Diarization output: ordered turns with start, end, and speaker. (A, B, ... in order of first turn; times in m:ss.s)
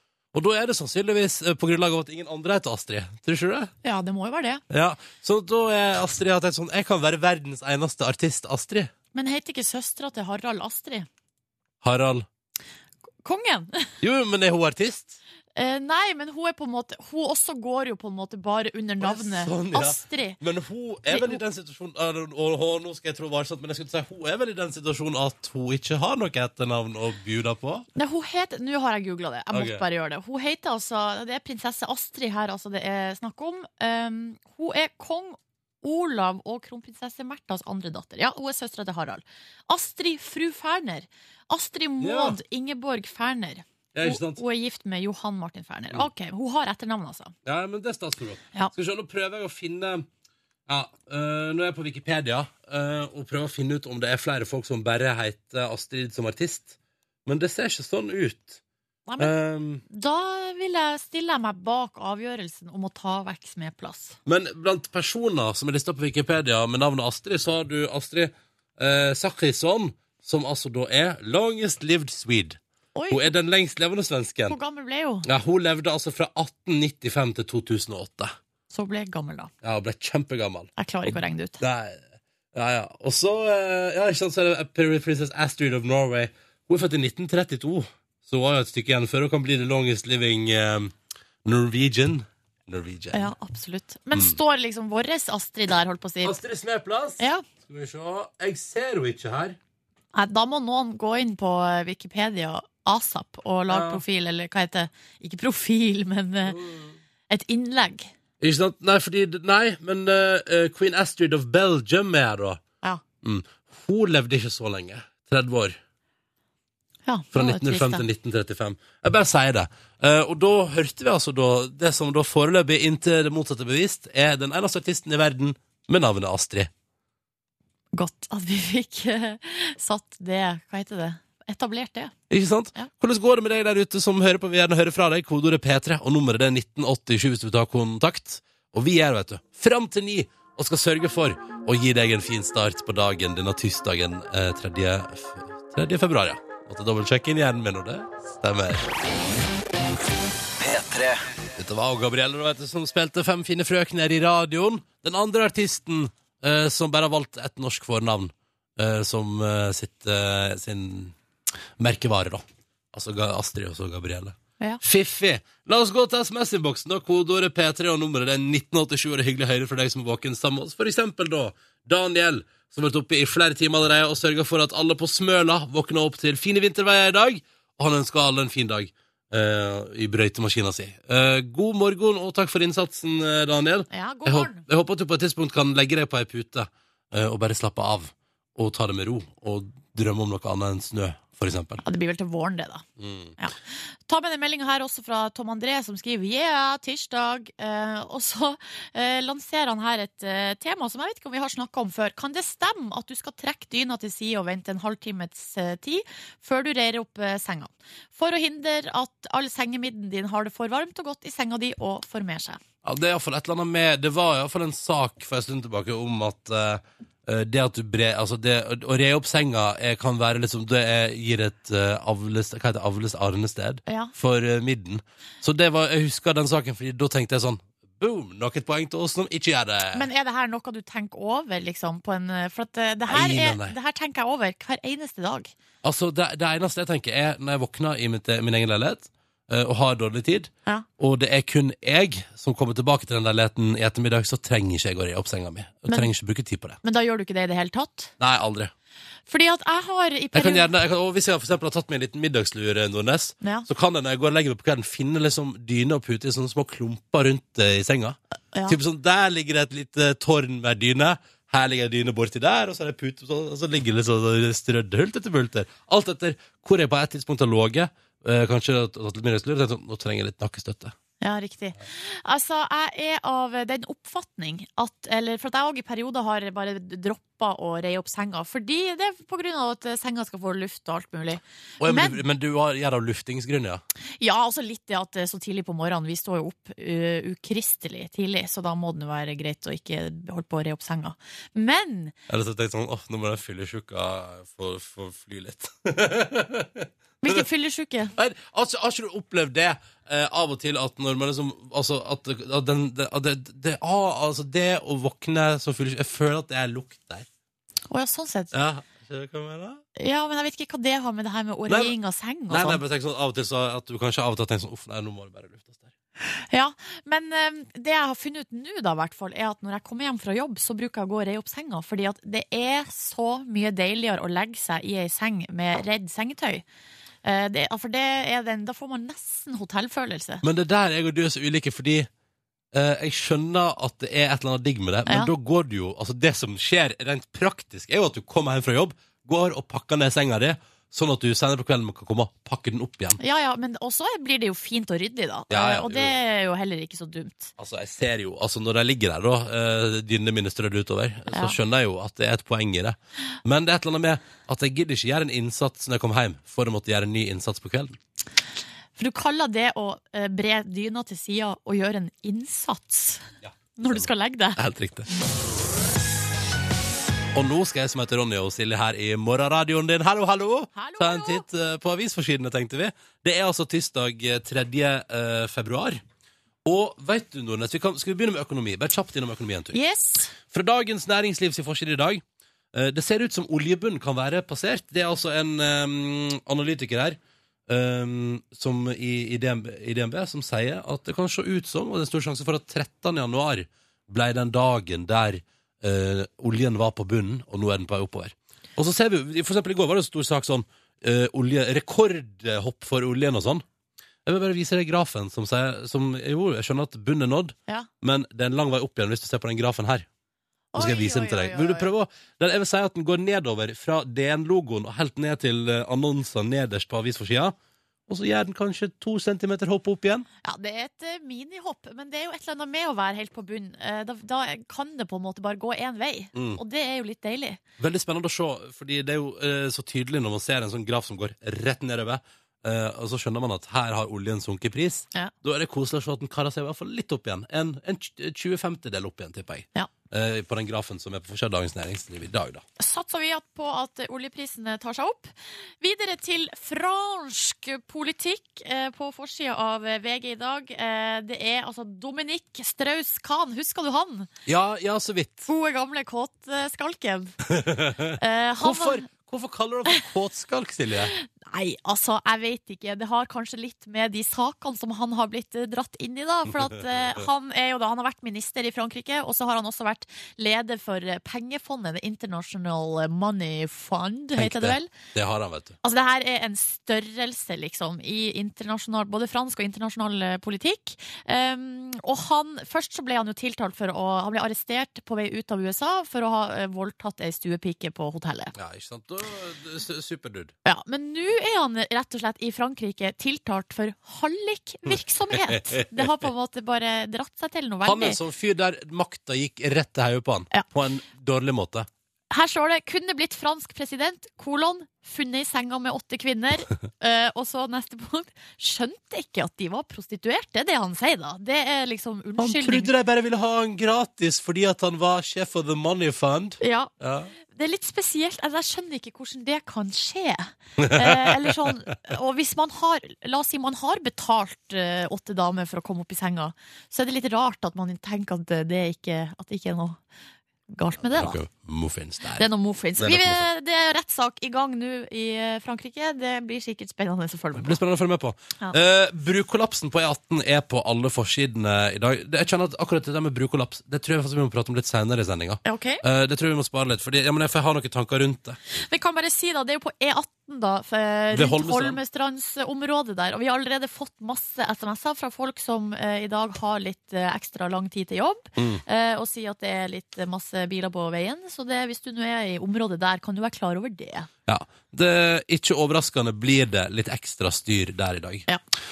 0:00.3-0:03.7 A
0:03.8-0:04.6 B
0:04.7-0:08.9 A
0:09.1-0:11.1 B
0:11.8-0:12.3 A
0:13.2-0:13.9 B
0:14.0-0:15.2 A
0:15.6-0:20.4 B
0:19.0-0:27.9 A
0:21.1-0:21.4 B
0:28.0-0:47.3 B
0:29.5-0:29.8 A
0:42.0-0:42.4 A
0:43.9-0:44.4 A
0:47.4-0:50.1 A
0:50.7-0:58.6 A
0:59.1-0:59.3 B
0:59.2-0:59.8 A
0:59.9-1:04.2 B
1:04.3-1:12.6 A
1:13.0-1:13.3 B
1:13.1-1:14.6 A
1:14.5-1:15.3 B
1:15.2-1:18.3 A
1:18.7-1:19.5 B
1:19.6-1:22.0 A
1:20.8-1:21.6 B
1:22.5-1:30.9 A
1:31.4-1:33.3 A
1:33.1-1:36.4 B
1:36.2-1:39.6 A
1:37.2-1:37.4 B
1:40.1-1:46.6 B
1:43.7-1:44.0 A
1:46.5-1:47.0 A
1:47.3-1:48.1 B
1:48.4-1:52.6 A
1:53.2-1:55.8 A
1:57.1-1:58.0 B
1:57.3-2:06.7 A
2:07.9-2:12.1 B
2:12.3-2:28.9 A
2:30.6-2:41.2 A
2:41.8-3:11.8 A
3:03.9-3:04.6 B
3:11.8-3:12.8 B
3:13.0-3:13.4 A
3:14.1-3:32.6 B
3:32.8-3:50.1 A
3:43.9-3:44.1 B
3:49.9-3:55.5 B
3:53.1-3:53.8 A
3:55.8-4:06.8 A
4:06.8-4:08.1 B
4:08.2-4:08.7 A
4:09.3-4:10.7 B
4:10.3-4:30.9 A
4:31.2-4:42.2 B
4:41.8-4:43.8 A
4:44.2-4:52.1 B
4:52.3-4:57.4 A
4:57.2-4:58.1 B
4:58.2-5:07.3 A
5:07.9-5:08.5 B
5:08.5-5:09.8 A
5:10.0-5:12.8 B
5:11.7-5:11.9 A
5:12.5-5:15.9 A
5:16.2-5:26.6 B
5:27.2-5:30.4 B
5:30.4-5:32.1 A
5:32.7-5:43.2 A
5:43.2-5:47.5 B
5:45.5-5:46.2 A
5:47.6-5:58.0 A
5:59.0-6:03.2 B
6:03.4-6:05.1 A
6:03.8-6:04.6 B
6:07.4-6:16.0 A
6:10.8-6:11.4 B
6:16.6-6:19.8 A
6:19.7-6:20.3 B
6:20.5-6:22.2 A
6:22.7-6:43.6 A
6:44.3-6:50.1 A
6:50.7-6:51.9 B
6:50.8-6:57.6 A
6:58.1-7:00.3 A
7:00.4-7:07.6 B
7:06.3-7:06.6 A
7:07.8-7:22.6 A
7:22.8-7:34.3 B
7:34.5-7:35.5 A
7:35.5-7:37.4 B
7:37.5-7:41.1 A
7:38.2-7:39.1 B
7:41.1-7:54.9 B
7:54.4-7:55.8 A
7:55.8-8:08.5 B
8:08.6-8:10.5 A
8:10.6-8:18.2 B
8:14.9-8:16.1 A
8:17.9-8:21.9 A
8:22.3-8:32.9 B
8:32.4-8:37.3 A
8:36.6-8:36.9 B
8:37.5-8:50.0 B
8:40.8-8:41.7 A
8:50.7-8:51.4 B
8:51.1-8:52.5 A
8:52.4-8:57.8 B
8:53.0-8:53.4 A
8:57.6-9:08.6 A
9:05.6-9:06.0 B
9:08.9-9:24.3 B
9:11.3-9:12.0 A
9:18.6-9:18.8 A
9:24.5-9:28.5 A